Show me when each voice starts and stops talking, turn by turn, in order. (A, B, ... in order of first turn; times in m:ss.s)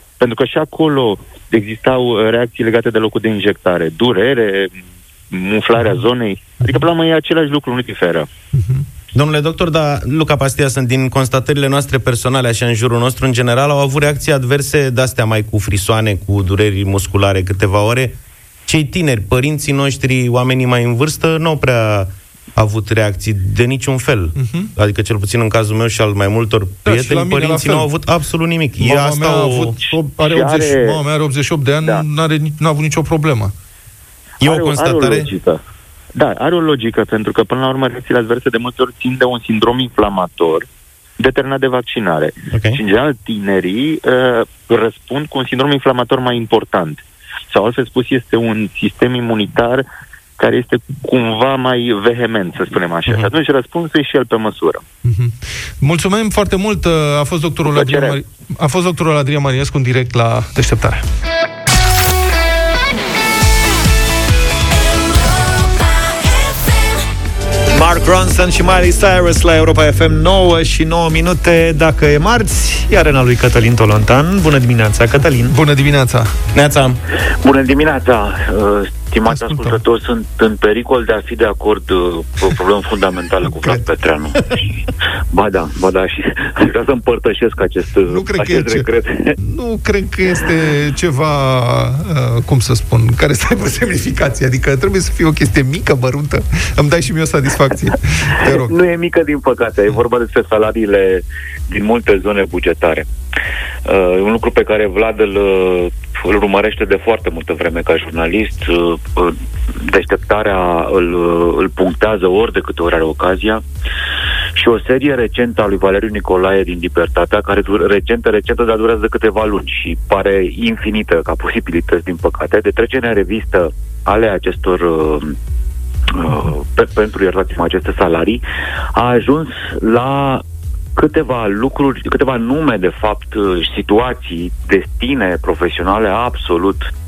0:00.2-0:08.3 A
0:08.5-0:08.9 B
0:09.1-0:18.2 C
0:18.7-0:29.8 C
0:24.4-0:24.7 B
0:26.8-0:27.9 B
0:28.8-0:33.5 B
0:30.3-0:31.0 A
0:34.4-0:35.3 C
0:34.4-0:35.6 A
0:36.2-0:40.7 A
0:41.2-0:49.8 A
0:42.5-0:42.8 C
0:50.4-0:54.8 A
0:55.0-1:01.0 B
0:57.7-0:58.2 A
1:07.7-1:15.6 D
1:15.5-1:16.3 B
1:16.5-1:17.0 C
1:17.4-1:24.6 E
1:19.2-1:19.8 B
1:23.4-1:23.8 B
1:25.3-1:29.4 E
1:28.0-1:28.9 B
1:29.4-1:38.7 B
1:38.5-1:43.1 E
1:43.9-1:53.6 E
1:54.6-2:05.4 E
2:06.1-2:08.4 E
2:09.0-2:10.4 E
2:11.0-2:16.9 E